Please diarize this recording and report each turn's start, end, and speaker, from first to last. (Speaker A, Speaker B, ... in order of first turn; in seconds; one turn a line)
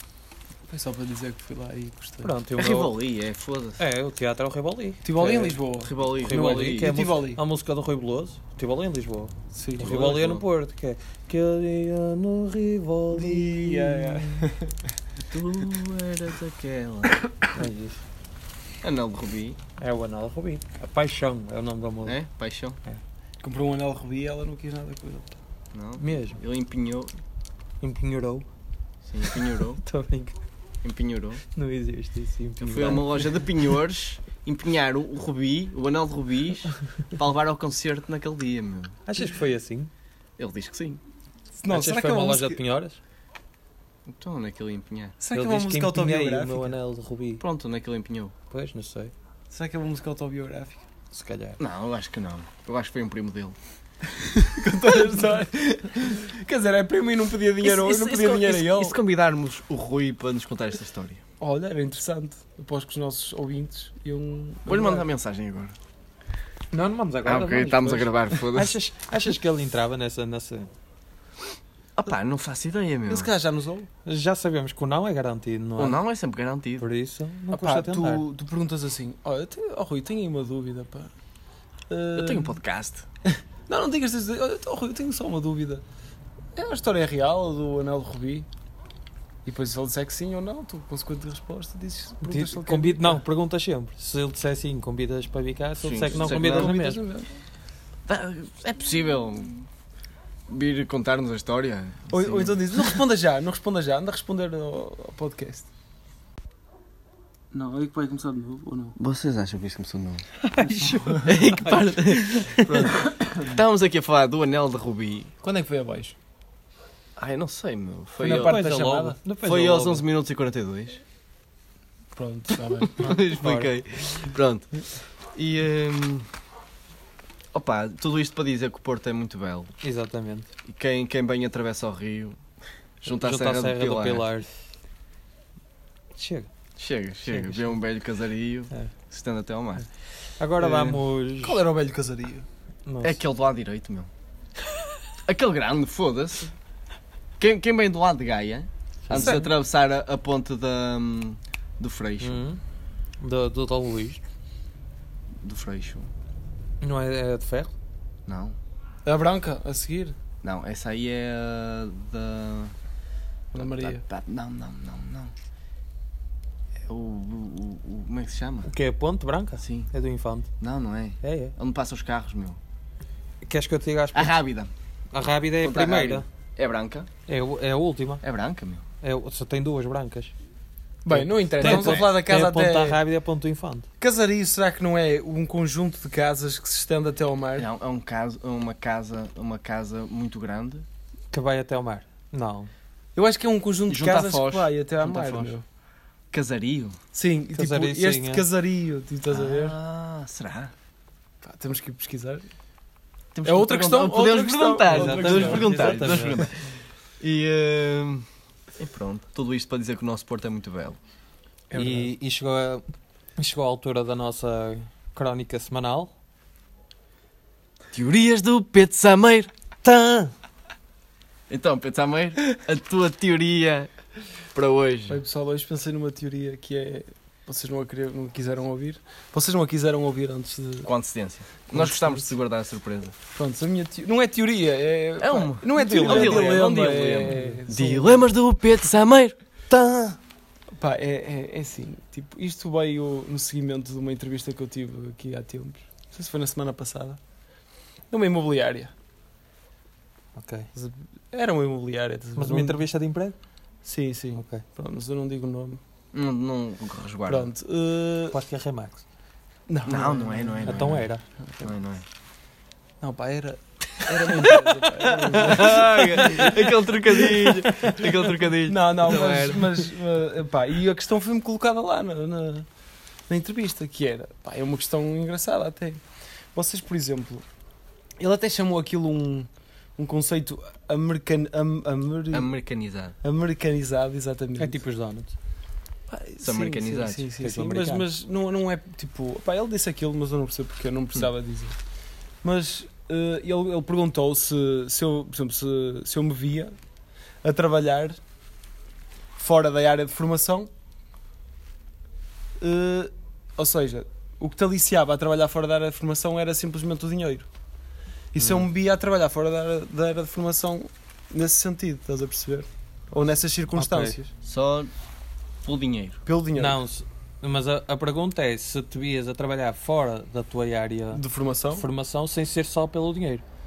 Speaker A: 0.7-2.3
Speaker B: 2.2-2.9
Speaker C: 2.6-3.8
Speaker B: 3.8-5.6
Speaker A: 5.0-7.4
Speaker C: 5.8-6.9
Speaker B: 6.2-14.4
Speaker A: 9.5-9.9
Speaker C: 9.8-10.4
Speaker A: 13.1-14.7
Speaker C: 15.3-17.2
Speaker B: 17.5-18.0
Speaker C: 18.8-19.6
Speaker B: 19.8-22.2
Speaker C: 22.1-22.8
Speaker A: 23.4-25.3
Speaker C: 25.7-27.1
Speaker B: 26.0-26.4
Speaker B: 27.8-28.4
Speaker C: 29.0-29.8
Speaker B: 29.8-30.4
Speaker C: 30.8-31.4
Speaker B: 31.5-33.3
Speaker C: 32.6-39.0
Speaker B: 39.0-39.9
Speaker C: 40.4-41.0
Speaker A: 41.6-42.6
Speaker B: 41.7-43.0
Speaker C: 44.1-45.2
Speaker A: 45.2-46.7
Speaker B: 45.3-47.4
Speaker C: 47.4-48.3
Speaker B: 48.5-49.1
Speaker A: 49.5-50.8
Speaker B: 51.1-51.6
Speaker C: 51.6-53.5
Speaker A: 54.1-59.0
Speaker C: 57.6-61.2
Speaker A: 61.4-65.0
Speaker C: 64.7-65.7
Speaker B: 66.7-70.7
Speaker C: 67.2-68.8
Speaker C: 72.0-73.3
Speaker A: 73.1-73.9
Speaker B: 74.0-76.0
Speaker C: 75.8-76.8
Speaker B: 76.8-78.2
Speaker A: 77.5-81.1
Speaker A: 81.9-82.6
Speaker C: 82.1-83.0
Speaker A: 83.7-85.8
Speaker A: 86.5-88.5
Speaker A: 89.4-93.2
Speaker B: 92.2-97.0
Speaker C: 95.8-96.7
Speaker A: 96.1-97.3
Speaker C: 98.0-99.7
Speaker C: 100.5-102.8
Speaker A: 102.1-105.7
Speaker A: 107.5-109.0
Speaker C: 109.0-110.2
Speaker B: 110.4-112.7
Speaker A: 110.8-111.2
Speaker C: 111.2-115.3
Speaker A: 115.4-116.2
Speaker C: 117.2-118.6
Speaker A: 118.2-119.2
Speaker B: 118.3-120.0
Speaker C: 119.4-121.0
Speaker A: 122.1-123.1
Speaker C: 122.8-124.7
Speaker B: 123.0-123.7
Speaker C: 125.3-126.3
Speaker C: 127.5-129.7
Speaker B: 129.8-130.5
Speaker C: 130.6-132.4
Speaker C: 133.0-134.2
Speaker B: 133.1-134.5
Speaker B: 136.2-136.5
Speaker C: 136.8-139.9
Speaker B: 137.2-137.8
Speaker B: 140.4-141.6
Speaker A: 140.6-142.4
Speaker B: 142.8-143.2
Speaker C: 143.0-144.1
Speaker C: 145.2-146.5
Speaker C: 147.4-152.4
Speaker B: 149.1-149.5
Speaker A: 149.1-149.4
Speaker B: 152.2-152.6
Speaker B: 153.2-154.2
Speaker C: 155.4-156.1
Speaker B: 156.8-157.7
Speaker C: 158.3-158.6
Speaker A: 159.0-160.2
Speaker C: 160.4-162.7
Speaker A: 163.5-164.0
Speaker C: 163.5-165.3
Speaker C: 166.9-168.7
Speaker B: 168.7-170.5
Speaker C: 169.6-169.9
Speaker C: 170.6-172.6
Speaker B: 171.2-171.5
Speaker B: 173.4-174.3
Speaker C: 174.1-174.7
Speaker B: 175.1-176.2
Speaker C: 175.6-177.1
Speaker B: 177.3-178.2
Speaker C: 178.2-178.8
Speaker B: 179.0-180.3
Speaker A: 181.0-183.0
Speaker B: 181.1-183.8
Speaker C: 181.6-182.1
Speaker A: 184.0-187.7
Speaker C: 187.6-190.8
Speaker B: 191.3-192.7
Speaker A: 193.2-195.6
Speaker C: 193.9-195.6
Speaker C: 196.3-197.0
Speaker A: 197.1-199.8
Speaker B: 197.5-198.4
Speaker C: 199.3-200.7
Speaker A: 201.4-202.4
Speaker C: 203.3-206.6
Speaker A: 203.4-206.5
Speaker B: 204.9-206.5
Speaker C: 207.2-208.2
Speaker C: 208.8-211.0
Speaker A: 211.7-212.1
Speaker B: 211.7-212.8
Speaker B: 213.4-216.1
Speaker C: 217.9-219.5
Speaker B: 219.8-220.3
Speaker C: 221.5-223.9
Speaker C: 224.5-225.2
Speaker A: 225.1-230.9
Speaker C: 230.8-233.1
Speaker A: 231.7-232.3
Speaker A: 233.3-238.3
Speaker C: 235.2-239.4
Speaker B: 235.8-236.6
Speaker B: 237.3-237.6
Speaker B: 239.7-240.2
Speaker A: 240.8-247.2
Speaker A: 248.1-248.9
Speaker B: 250.3-250.7
Speaker A: 250.7-252.8
Speaker B: 252.3-253.3
Speaker A: 253.8-255.8
Speaker B: 254.4-254.6
Speaker C: 256.1-257.5
Speaker A: 257.3-258.4
Speaker B: 258.3-259.0
Speaker A: 259.7-260.9
Speaker C: 259.9-261.1
Speaker B: 260.6-261.2
Speaker C: 261.6-262.0
Speaker A: 263.0-272.6
Speaker C: 264.0-269.8
Speaker A: 273.3-276.0
Speaker A: 276.5-277.4
Speaker A: 278.2-282.5
Speaker C: 282.3-283.1
Speaker A: 283.2-284.8
Speaker B: 284.6-285.3
Speaker A: 286.1-291.8
Speaker C: 286.4-287.3
Speaker B: 287.4-288.0
Speaker A: 292.4-296.7
Speaker A: 297.4-298.2
Speaker A: 299.4-300.7
Speaker A: 302.6-307.5
Speaker A: 308.3-314.3
Speaker B: 308.4-308.6
Speaker B: 313.7-314.1
Speaker C: 314.4-314.9
Speaker C: 315.6-316.2
Speaker A: 316.2-316.8
Speaker B: 316.5-321.2
Speaker A: 321.1-321.8
Speaker B: 321.7-323.4